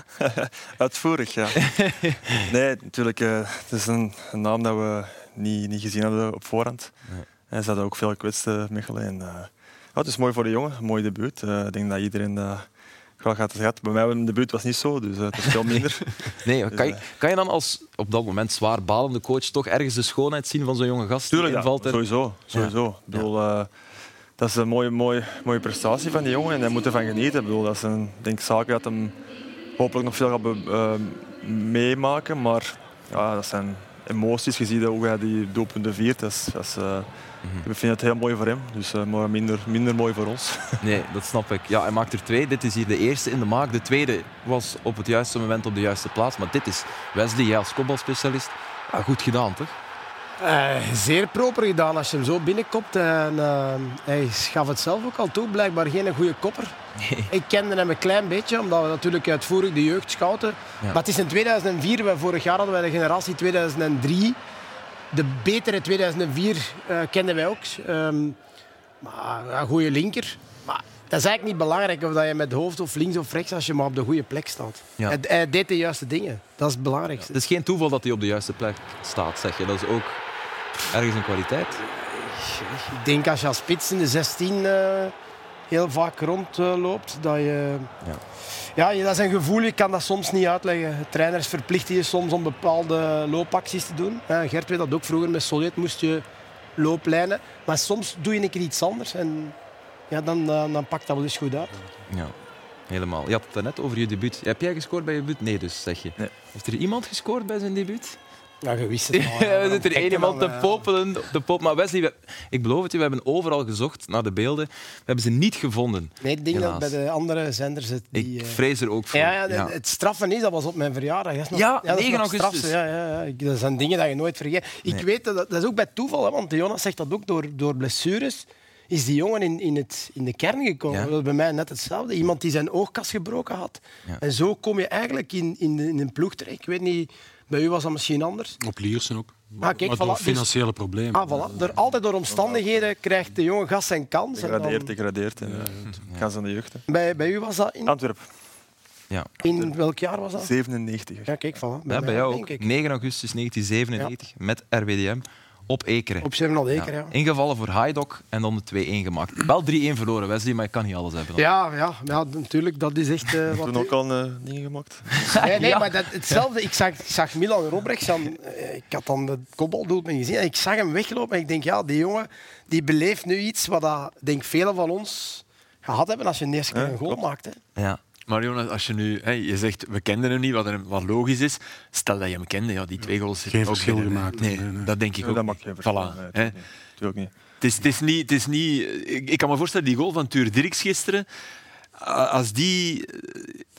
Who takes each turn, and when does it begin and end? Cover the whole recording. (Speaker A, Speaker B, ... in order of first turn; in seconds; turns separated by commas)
Speaker A: 0.2-16.1, Speaker B: 1.7-2.2, Speaker B: 16.4-23.3, Speaker A: 16.7-17.0, Speaker A: 21.3-23.7, Speaker A: 24.4-29.2, Speaker A: 29.8-37.1, Speaker B: 37.4-37.7, Speaker A: 37.6-40.8, Speaker B: 40.8-49.8, Speaker C: 50.4-56.8, Speaker B: 57.0-57.3, Speaker C: 57.3-64.4, Speaker C: 65.1-68.4, Speaker C: 69.0-77.3, Speaker B: 77.2-80.2, Speaker B: 80.8-81.8, Speaker C: 81.9-85.1, Speaker C: 85.7-87.9, Speaker C: 88.8-96.2, Speaker C: 96.8-99.5, Speaker C: 100.1-101.7, Speaker B: 102.1-102.3, Speaker B: 102.9-108.2, Speaker C: 108.6-110.8, Speaker B: 109.1-116.9, Speaker C: 116.2-118.6, Speaker B: 118.2-119.7, Speaker C: 119.1-138.6, Speaker B: 121.5-122.7, Speaker D: 138.6-141.7, Speaker C: 139.6-140.5, Speaker C: 141.1-144.9, Speaker A: 142.3-142.9, Speaker A: 144.3-146.8, Speaker D: 145.4-146.1, Speaker C: 146.9-147.9, Speaker A: 147.9-148.3, Speaker C: 149.4-150.5, Speaker A: 149.5-149.7, Speaker A: 150.4-151.4, Speaker C: 151.3-152.7, Speaker B: 151.9-161.5, Speaker C: 156.2-157.1, Speaker C: 161.4-163.9, Speaker A: 163.6-165.5, Speaker B: 165.2-166.4, Speaker C: 165.4-177.6, Speaker A: 176.7-177.2, Speaker E: 178.3-186.6, Speaker D: 183.4-184.9, Speaker A: 185.2-187.3, Speaker E: 187.6-191.3, Speaker E: 192.0-193.7